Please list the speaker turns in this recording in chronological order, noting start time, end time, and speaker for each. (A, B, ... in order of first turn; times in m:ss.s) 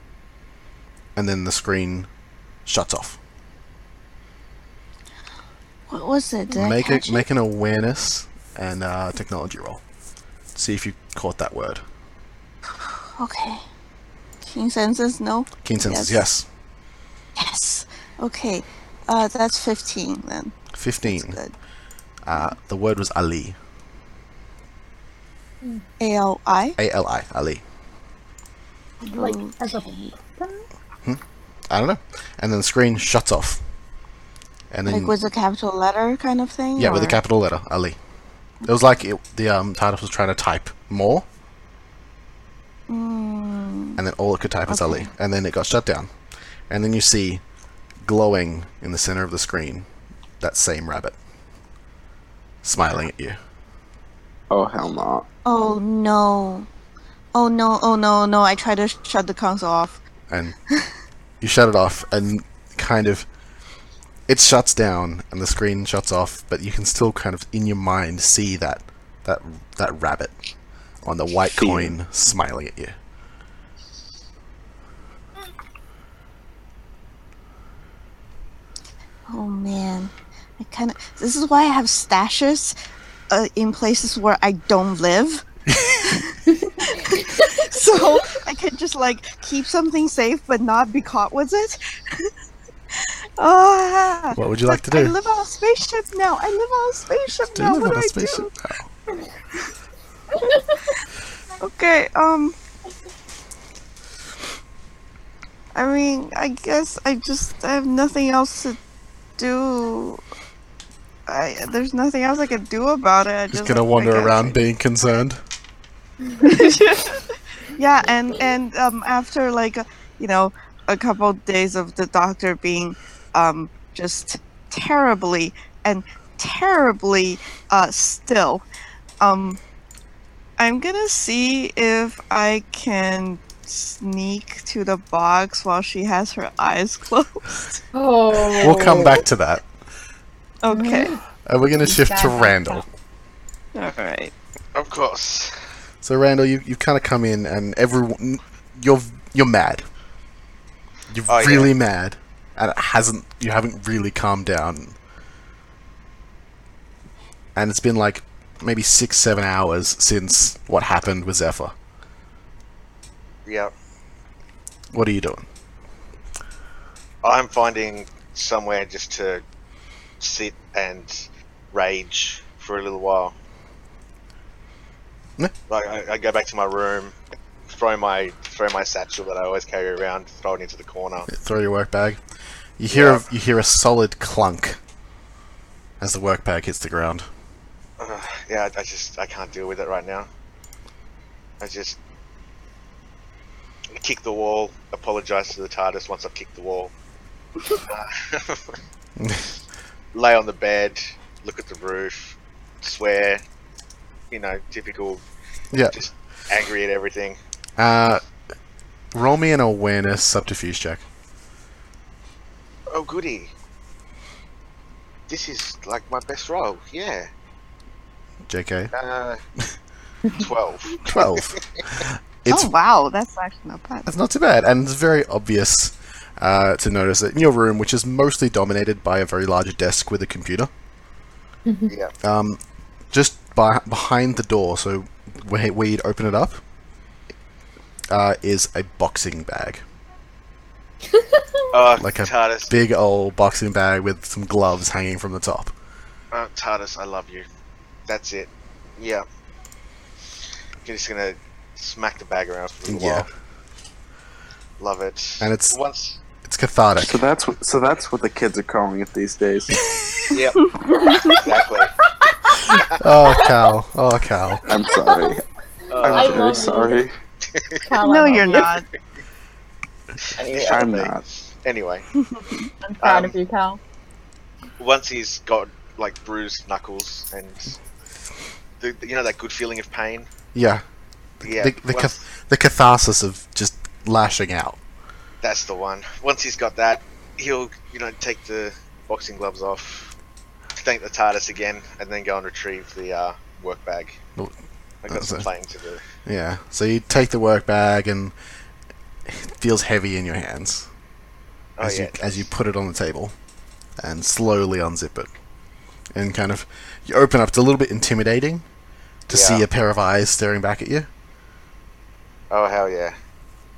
0:01.2-0:02.1 A
0:02.7-0:03.2 A
0:05.9-0:07.2 B
0:06.6-0:09.8 A
0:10.6-0:11.8 A
0:12.8-0:13.6 B
0:14.4-0:16.2 B
0:15.6-0:16.5 A
0:17.4-0:21.5 B
0:20.7-0:21.4 A
0:22.2-0:23.6 A
0:26.0-0:26.8 B
0:26.8-0:27.6 A
0:29.0-0:30.6 C
0:29.1-0:30.1 B
0:31.0-0:33.6 A
0:34.7-0:35.2 A
0:34.9-0:37.2 B
0:36.8-0:38.0 A
0:38.6-0:41.3 A
0:42.9-0:44.0 B
0:44.0-0:46.1 A
0:44.7-0:45.1 B
0:46.7-0:47.4 A
0:48.0-0:49.9 A
0:50.4-0:51.2 A
0:52.6-0:53.4 A
0:54.5-0:55.3 D
0:55.4-0:56.7 B
0:57.3-1:00.0 B
1:00.3-1:00.6 A
1:01.4-1:03.3 A
1:04.3-1:10.3 A
1:11.0-1:13.0 A
1:11.5-1:11.9 D
1:19.3-1:22.8 B
1:23.3-1:25.4 B
1:25.7-1:26.0 A
1:26.0-1:32.3 B
1:26.8-1:27.6 C
1:33.4-1:38.5 B
1:34.3-1:35.1 A
1:37.6-1:38.9 A
1:40.3-1:40.9 C
1:41.6-1:42.6 B
1:45.8-1:48.8 B
1:49.4-1:50.2 B
1:51.3-1:54.5 B
1:53.5-1:55.4 A
1:56.4-2:08.6 B
2:09.2-2:09.6 B
2:10.6-2:17.8 B
2:17.9-2:19.2 C
2:18.6-2:19.0 B
2:18.6-2:19.6 A
2:20.6-2:21.2 B
2:20.7-2:21.2 C
2:21.5-2:22.8 A
2:21.8-2:22.8 C
2:23.7-2:24.3 B
2:24.8-2:25.6 E
2:26.0-2:29.9 A
2:31.1-2:35.0 A
2:31.3-2:31.7 E
2:37.6-2:41.8 A
2:43.5-2:43.7 E
2:44.9-2:45.4 A
2:47.2-2:49.4 E
2:50.2-2:53.4 E
2:55.7-2:57.2 E
2:57.7-3:01.3 E
3:01.3-3:02.2 A
3:02.8-3:04.8 A
3:02.9-3:03.2 E
3:06.0-3:07.3 A
3:08.0-3:10.3 E
3:11.6-3:12.0 E
3:14.0-3:16.9 E
3:17.7-3:18.8 E
3:19.2-3:19.5 A
3:20.1-3:23.4 E
3:24.3-3:25.2 E
3:25.9-3:27.4 E
3:27.8-3:28.2 A
3:29.1-3:31.0 A
3:32.9-3:33.5 E
3:35.3-3:37.3 E
3:38.5-3:38.9 A
3:38.9-3:39.4 E
3:40.3-3:41.8 E
3:41.1-3:42.7 A
3:42.5-3:44.1 B
3:44.1-3:50.7 A
3:51.7-3:51.9 C
3:51.9-3:52.1 E
3:52.2-3:52.6 A
3:53.1-3:56.6 A
3:58.1-3:59.8 A
4:01.2-4:01.6 C
4:01.7-4:02.7 E
4:02.0-4:05.7 A
4:06.3-4:07.5 E
4:08.1-4:09.2 E
4:10.8-4:13.3 E
4:12.9-4:13.3 A
4:14.8-4:16.2 E
4:15.4-4:15.8 A
4:16.4-4:17.2 A
4:17.0-4:19.8 D
4:20.3-4:21.9 E
4:20.7-4:21.4 B
4:22.3-4:22.7 C
4:22.7-4:23.0 E
4:23.0-4:24.6 A
4:24.6-4:25.4 D
4:24.9-4:25.3 C
4:25.9-4:26.9 E
4:26.0-4:27.0 C
4:26.0-4:27.1 D
4:27.4-4:27.8 E
4:27.8-4:28.7 C
4:28.0-4:28.8 B
4:30.2-4:32.1 E
4:30.4-4:30.9 C
4:30.6-4:31.2 D
4:32.3-4:32.6 B
4:32.8-4:33.8 C
4:33.0-4:33.4 E
4:34.8-4:37.8 E
4:38.8-4:40.3 E
4:40.5-4:40.8 A
4:41.4-4:42.2 E
4:41.4-4:44.8 A
4:45.4-4:50.2 E
4:50.8-4:54.2 E
4:55.0-4:56.0 E
4:55.1-4:55.5 A
4:56.2-4:58.3 A
4:59.2-5:00.9 A
5:01.8-5:02.4 E
5:01.8-5:03.4 A
5:04.0-5:05.3 A
5:06.1-5:08.6 A
5:09.3-5:11.1 A
5:09.3-5:09.7 E
5:12.5-5:13.2 E